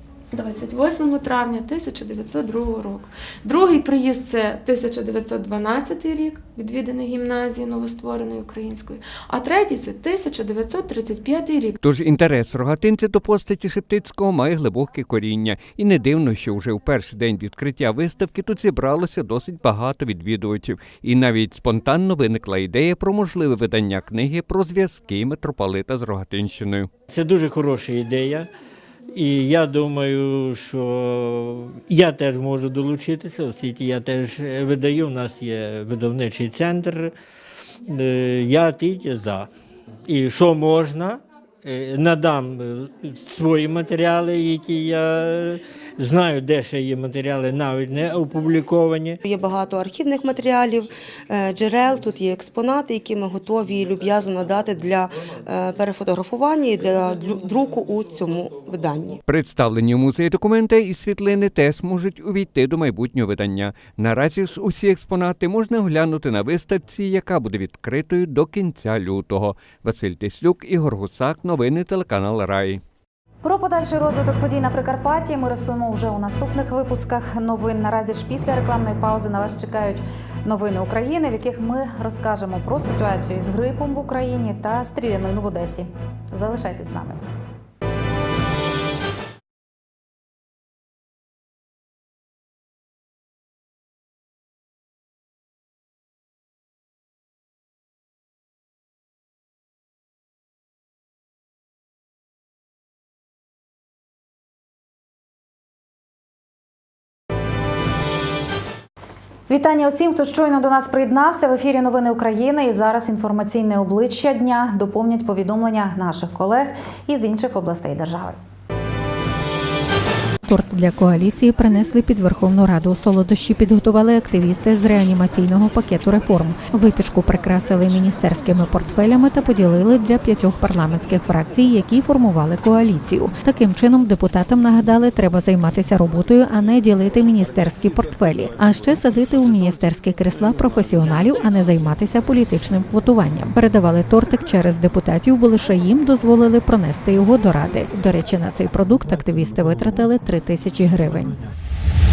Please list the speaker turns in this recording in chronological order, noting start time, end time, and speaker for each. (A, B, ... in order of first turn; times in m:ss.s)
0:00.3-0:11.8 A
0:11.8-0:26.9 B
0:27.1-0:28.5 C
0:29.1-0:37.1 C
0:37.9-0:39.5 C
0:40.1-0:49.2 C
0:49.2-0:59.2 D
0:59.3-1:12.8 B
1:13.4-1:27.2 E
1:49.5-1:58.4 E
2:00.5-2:31.4 F